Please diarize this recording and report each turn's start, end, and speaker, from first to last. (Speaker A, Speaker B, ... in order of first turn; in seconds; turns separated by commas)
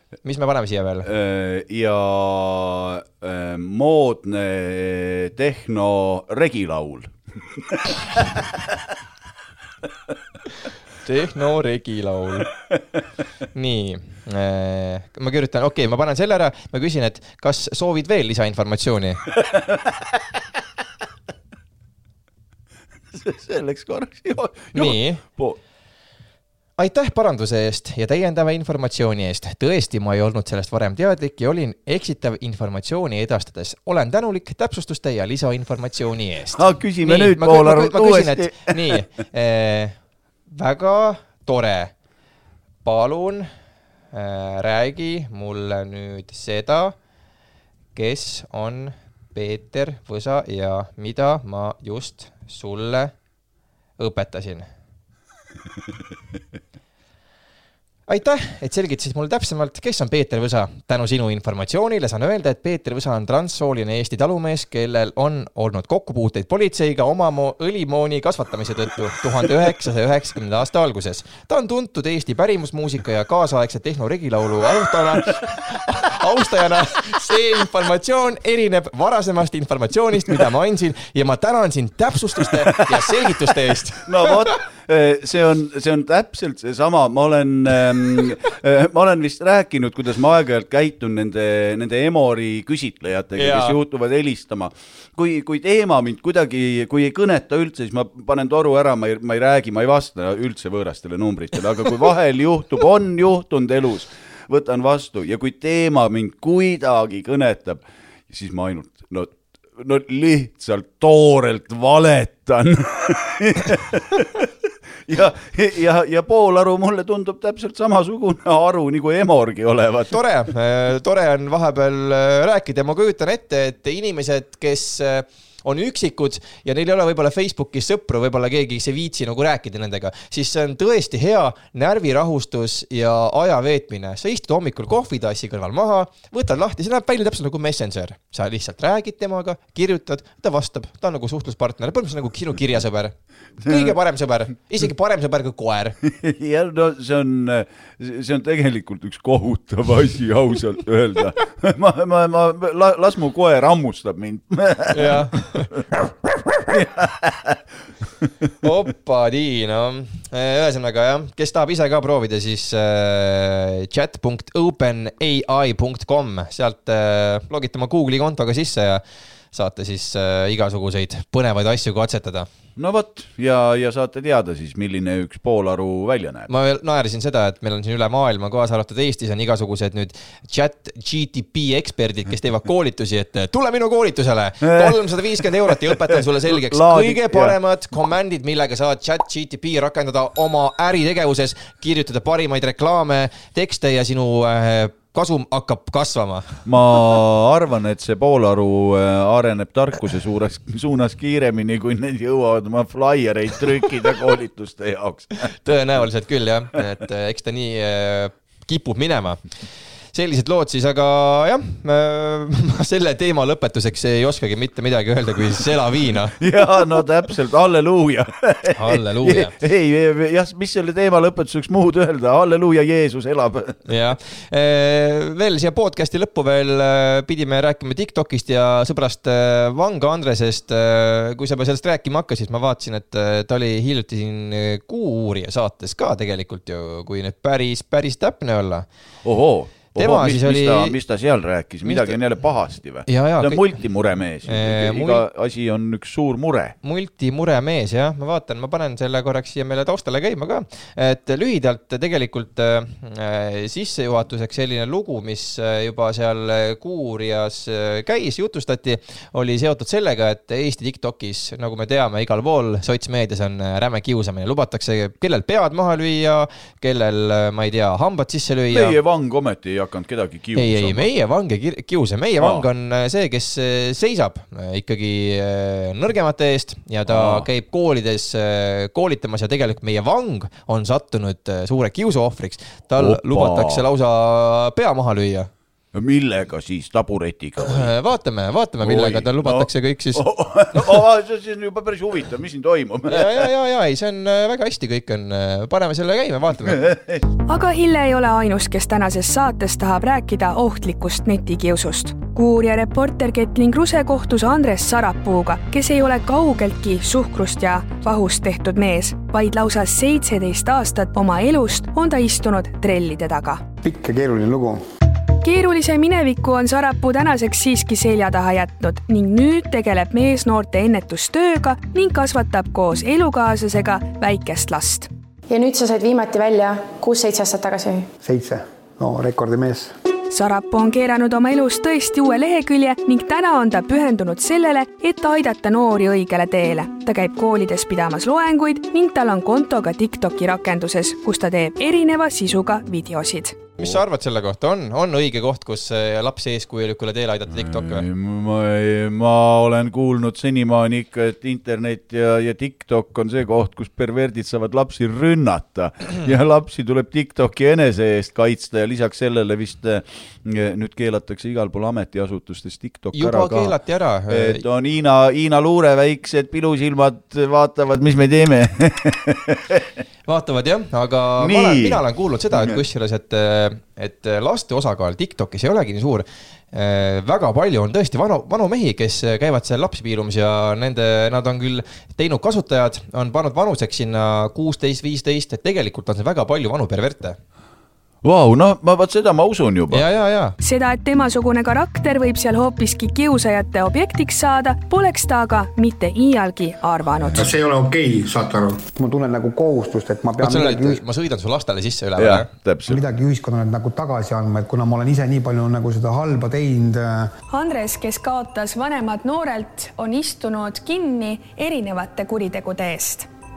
Speaker A: 0.2-1.1, Speaker B: 1.0-8.6, Speaker A: 11.0-12.5, Speaker A: 13.5-19.2, Speaker B: 19.5-20.2, Speaker B: 23.1-25.6, Speaker A: 24.8-25.2, Speaker A: 26.8-40.0, Speaker B: 36.5-39.0, Speaker A: 40.5-41.9, Speaker A: 42.9-43.5, Speaker A: 44.1-47.0, Speaker A: 48.0-53.1, Speaker A: 54.0-54.7, Speaker A: 58.1-84.4, Speaker B: 82.8-83.1, Speaker B: 84.0-114.5, Speaker A: 93.4-93.8, Speaker B: 115.1-120.2, Speaker A: 120.1-146.0, Speaker B: 143.6-143.9, Speaker B: 146.1-155.8, Speaker A: 154.9-155.7, Speaker B: 156.7-157.6, Speaker A: 158.6-172.5, Speaker B: 172.8-176.5, Speaker A: 176.5-196.6, Speaker B: 184.6-187.6, Speaker B: 196.7-205.5, Speaker A: 205.5-209.4, Speaker A: 210.1-216.4, Speaker B: 216.4-223.8, Speaker A: 218.7-219.5, Speaker A: 223.9-238.9, Speaker B: 239.2-246.8, Speaker A: 240.0-241.0, Speaker A: 241.8-242.2, Speaker A: 243.1-243.8, Speaker A: 244.5-245.2, Speaker A: 246.8-269.0, Speaker B: 268.7-271.1, Speaker A: 270.6-285.5, Speaker B: 272.4-272.7, Speaker B: 277.1-277.5, Speaker B: 283.0-283.8, Speaker B: 285.9-287.9, Speaker A: 287.6-291.0, Speaker B: 288.8-293.5, Speaker A: 293.1-296.8, Speaker B: 296.6-297.2, Speaker C: 297.5-313.7, Speaker D: 313.8-314.8, Speaker C: 315.4-325.1, Speaker E: 325.5-328.1, Speaker D: 328.2-329.9, Speaker C: 330.3-343.7, Speaker A: 343.8-348.1, Speaker B: 347.5-363.8, Speaker A: 363.1-364.6, Speaker B: 364.3-369.9, Speaker A: 370.3-387.4, Speaker B: 371.4-372.8, Speaker B: 388.2-390.0, Speaker A: 389.9-390.6, Speaker C: 390.6-397.5, Speaker D: 397.3-401.0, Speaker A: 400.4-402.5, Speaker B: 402.2-403.0, Speaker D: 402.9-407.3, Speaker C: 407.5-413.3